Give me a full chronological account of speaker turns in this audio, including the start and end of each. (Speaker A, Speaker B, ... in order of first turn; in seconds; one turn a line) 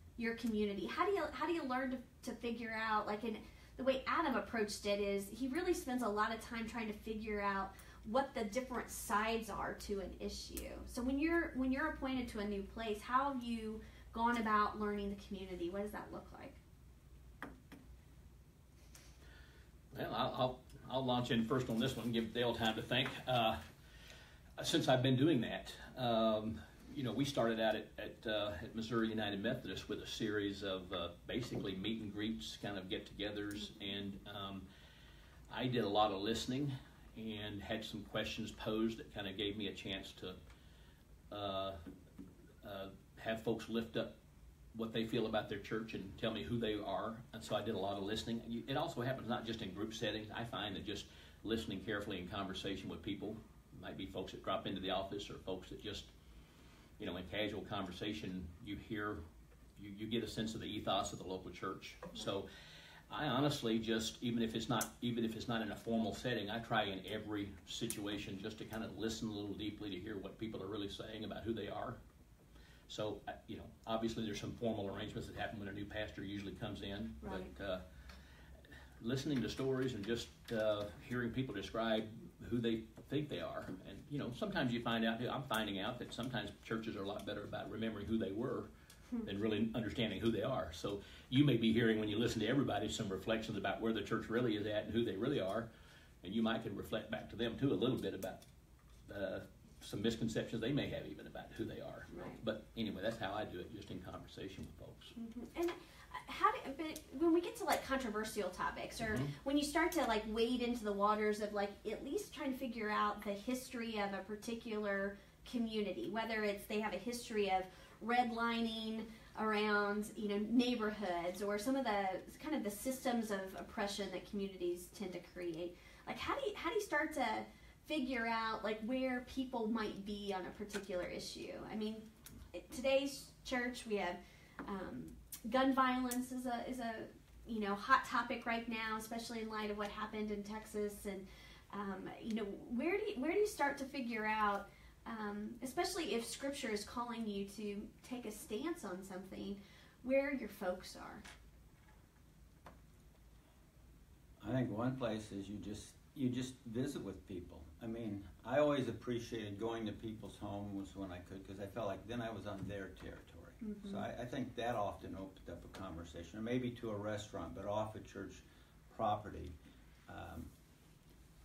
Speaker A: 0.2-16.6
Speaker B: 19.9-23.6
Speaker B: 24.6-34.6
Speaker B: 35.5-40.4
Speaker B: 41.3-41.8
Speaker B: 42.6-44.1
Speaker B: 44.7-56.1
Speaker B: 57.0-59.2
Speaker B: 59.8-62.5
Speaker B: 63.1-72.0
Speaker B: 72.9-77.8
Speaker A: 77.2-77.5
Speaker B: 79.0-88.7
Speaker B: 89.2-95.7
Speaker B: 96.2-98.4
Speaker B: 99.0-105.1
Speaker A: 102.1-102.4
Speaker A: 105.2-151.2
Speaker B: 109.0-109.3
Speaker C: 154.4-169.5
Speaker A: 163.6-164.1
Speaker C: 170.1-170.5